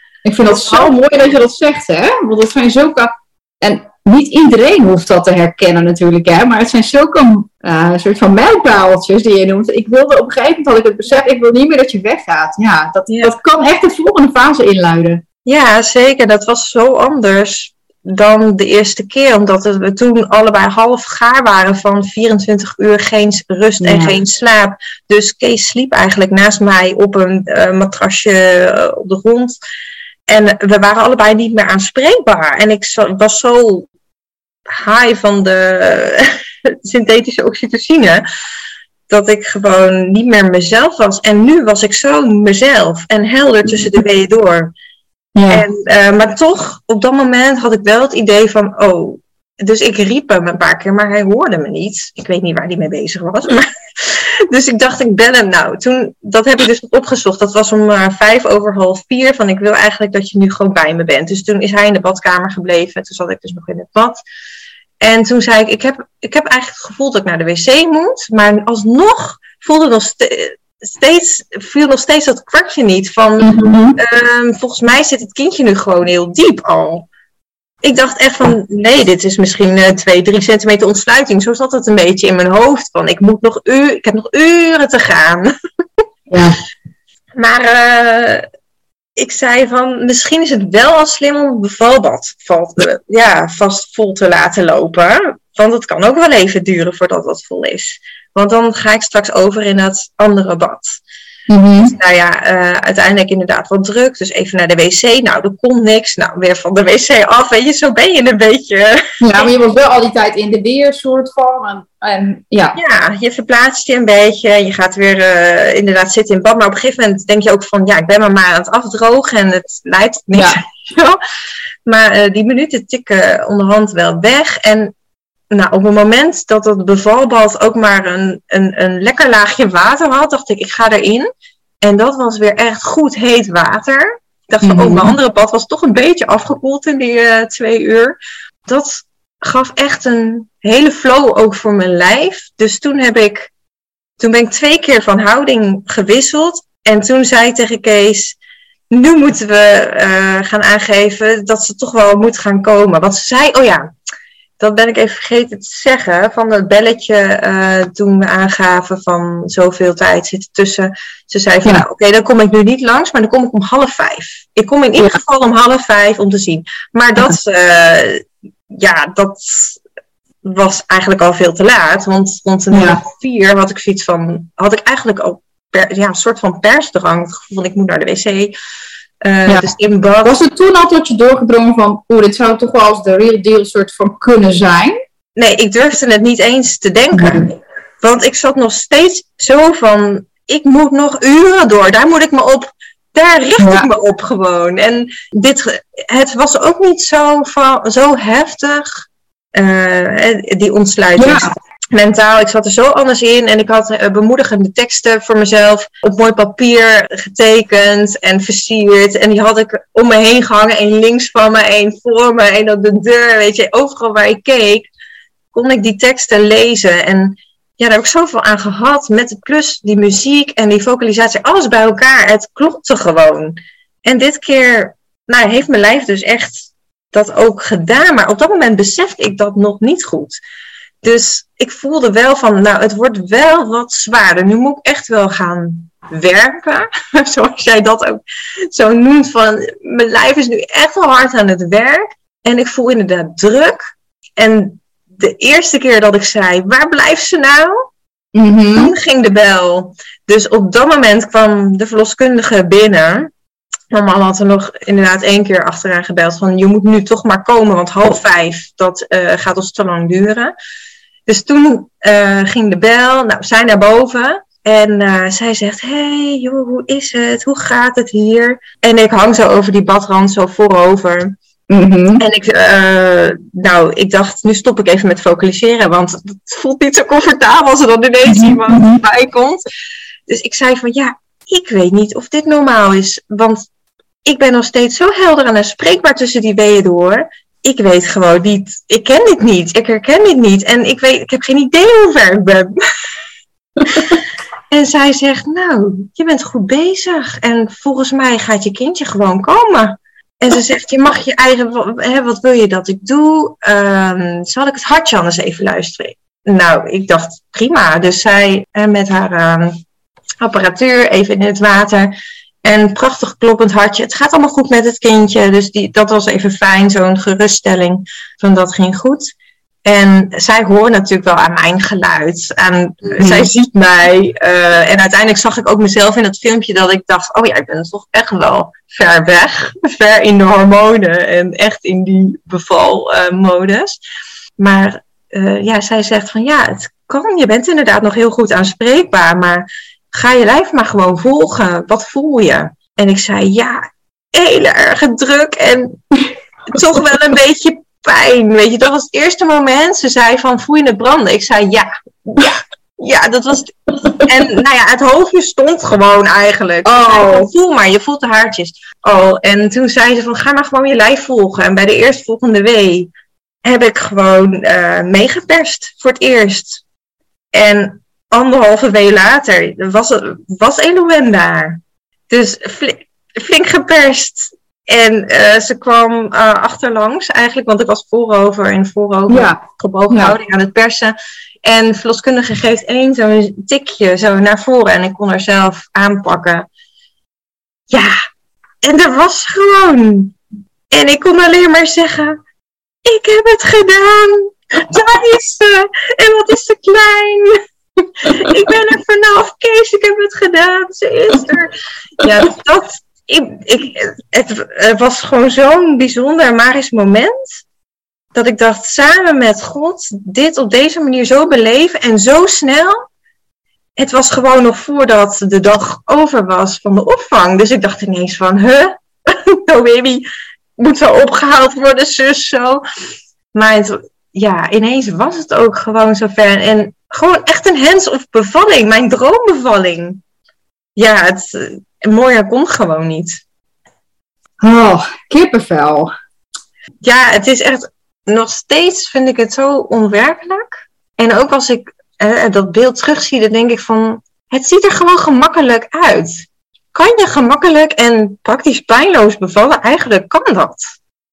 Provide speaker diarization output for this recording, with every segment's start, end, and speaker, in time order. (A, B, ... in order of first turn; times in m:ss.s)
0:00.2-0:15.2 A
0:00.5-0:00.9 B
0:13.1-0:13.3 B
0:15.4-0:29.6 B
0:23.8-0:24.2 A
0:30.3-0:33.9 B
0:34.7-0:38.2 B
0:39.1-0:44.7 B
0:45.4-0:45.7 A
0:45.5-1:04.2 B
1:05.0-1:17.1 B
1:13.4-1:14.0 A
1:17.8-1:25.5 B
1:26.3-1:26.6 A
1:27.4-1:28.5 B
1:29.2-1:41.0 B
1:41.5-1:42.0 A
1:41.8-1:49.5 B
1:49.2-1:52.8 A
1:52.8-2:01.2 B
2:01.9-2:04.9 B
2:05.5-2:11.3 B
2:11.8-2:18.2 B
2:14.6-2:15.2 A
2:18.7-2:23.5 B
2:24.2-2:28.4 B
2:28.9-2:33.9 B
2:34.6-2:49.8 B
2:50.4-2:58.6 B
2:52.7-2:53.0 A
2:59.2-3:00.4 B
3:00.2-3:05.0 A
3:05.4-3:34.9 B
3:07.2-3:07.5 A
3:13.6-3:13.9 A
3:21.2-3:21.5 A
3:35.5-3:50.4 B
3:51.0-4:07.8 B
4:08.4-4:08.9 A
4:08.8-4:13.3 B
4:13.9-4:20.5 B
4:21.3-4:31.4 B
4:31.7-4:32.2 A
4:32.2-4:39.6 B
4:38.3-4:39.0 A
4:40.3-4:43.6 B
4:44.2-4:52.8 B
4:53.8-5:09.8 B
5:10.4-5:34.0 B
5:23.1-5:23.5 A
5:34.6-5:46.0 B
5:46.7-6:03.1 B
5:56.8-5:57.5 A
6:03.6-6:06.8 B
6:07.5-6:21.2 B
6:19.3-6:20.4 A
6:21.7-6:26.7 B
6:27.9-6:28.2 B
6:28.8-6:30.4 B
6:30.9-6:32.4 B
6:33.0-6:37.5 B
6:38.2-6:47.6 B
6:48.3-6:53.0 B
6:54.0-7:00.3 B
7:00.8-7:02.8 B
7:03.5-7:10.2 B
7:11.0-7:13.4 B
7:14.6-7:16.1 A
7:17.0-7:31.0 B